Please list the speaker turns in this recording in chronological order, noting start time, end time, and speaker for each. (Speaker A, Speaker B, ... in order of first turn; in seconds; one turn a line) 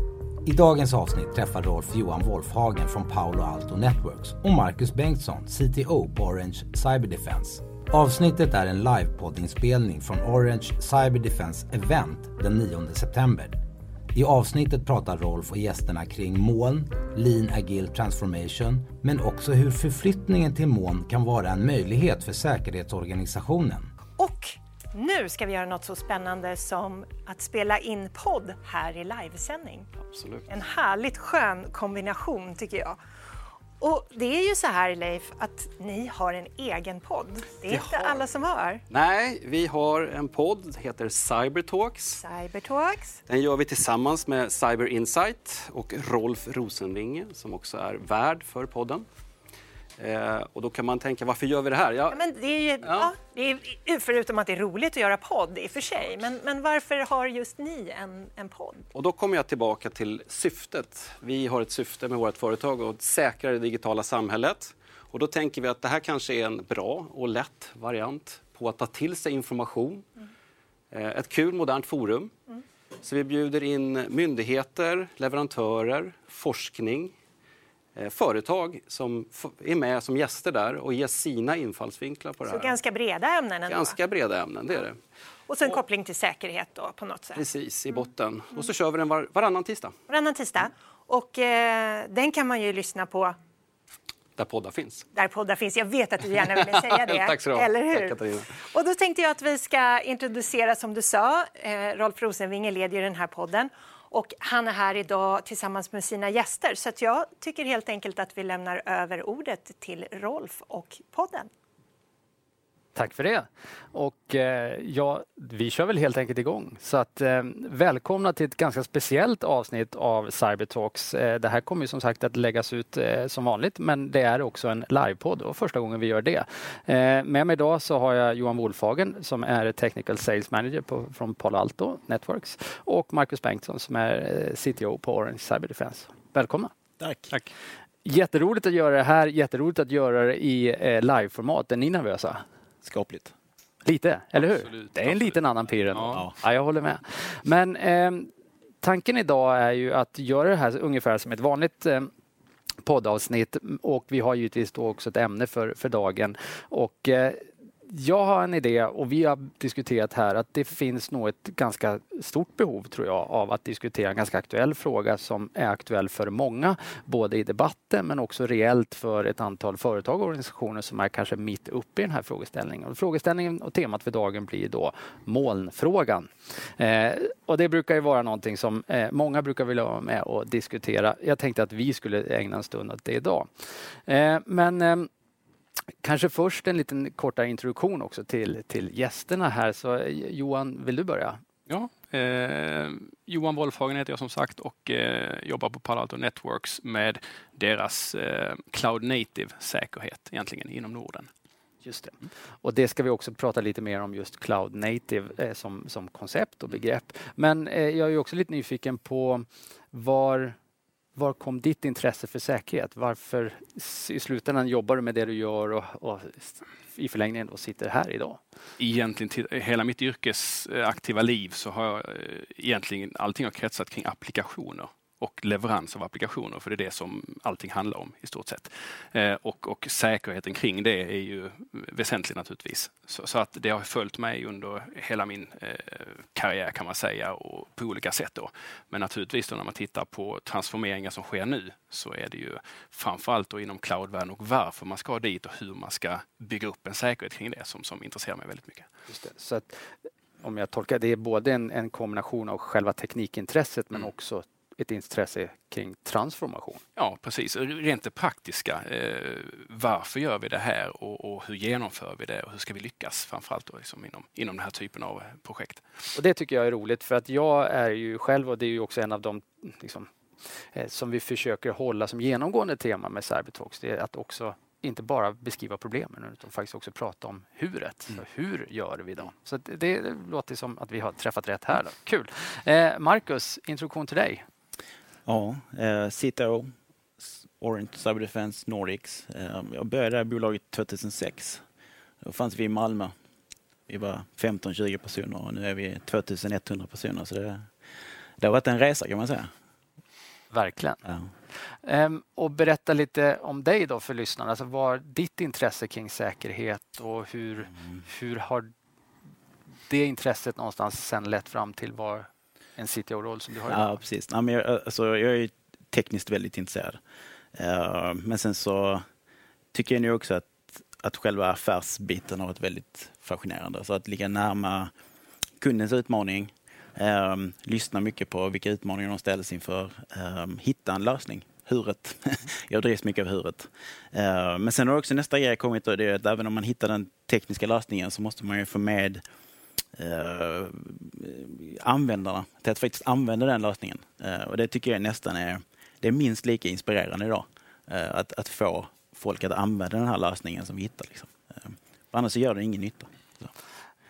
Speaker A: 0.5-13.6
Speaker A: 14.1-23.9
Speaker B: 24.2-29.9
Speaker C: 30.1-30.5
Speaker B: 30.5-33.0
Speaker B: 33.8-38.8
Speaker C: 37.7-38.2
Speaker C: 38.9-42.2
Speaker B: 42.2-43.2
Speaker C: 43.3-49.1
Speaker C: 50.0-52.2
Speaker B: 52.1-58.9
Speaker C: 52.8-53.1
Speaker C: 58.9-70.1
Speaker C: 70.9-72.3
Speaker C: 73.0-77.2
Speaker C: 78.0-82.8
Speaker B: 82.5-84.0
Speaker C: 83.7-85.0
Speaker B: 85.5-87.4
Speaker C: 87.3-90.0
Speaker B: 90.1-93.3
Speaker C: 94.4-95.1
Speaker B: 95.1-111.5
Speaker C: 96.3-98.5
Speaker D: 113.0-136.7
Speaker E: 137.0-137.3
Speaker D: 138.1-142.4
Speaker E: 142.8-143.3
Speaker D: 143.8-148.3
Speaker F: 144.5-146.2
Speaker D: 148.8-152.1
Speaker D: 152.8-183.5
Speaker D: 184.1-185.1
Speaker D: 186.0-191.4
Speaker F: 191.7-201.3
Speaker D: 201.8-210.6
Speaker D: 211.2-218.4
Speaker F: 218.8-248.9
Speaker D: 249.1-256.8
Speaker F: 257.0-265.8
Speaker D: 266.1-270.1
Speaker D: 270.7-284.4
Speaker E: 285.3-286.7
Speaker E: 287.6-291.6
Speaker E: 292.2-293.1
Speaker E: 293.9-297.7
Speaker E: 298.4-299.5
Speaker D: 300.5-301.0
Speaker D: 301.8-308.7
Speaker D: 309.9-314.0
Speaker E: 313.7-317.0
Speaker E: 317.6-319.1
Speaker E: 319.7-324.9
Speaker E: 325.6-339.2
Speaker E: 340.0-353.5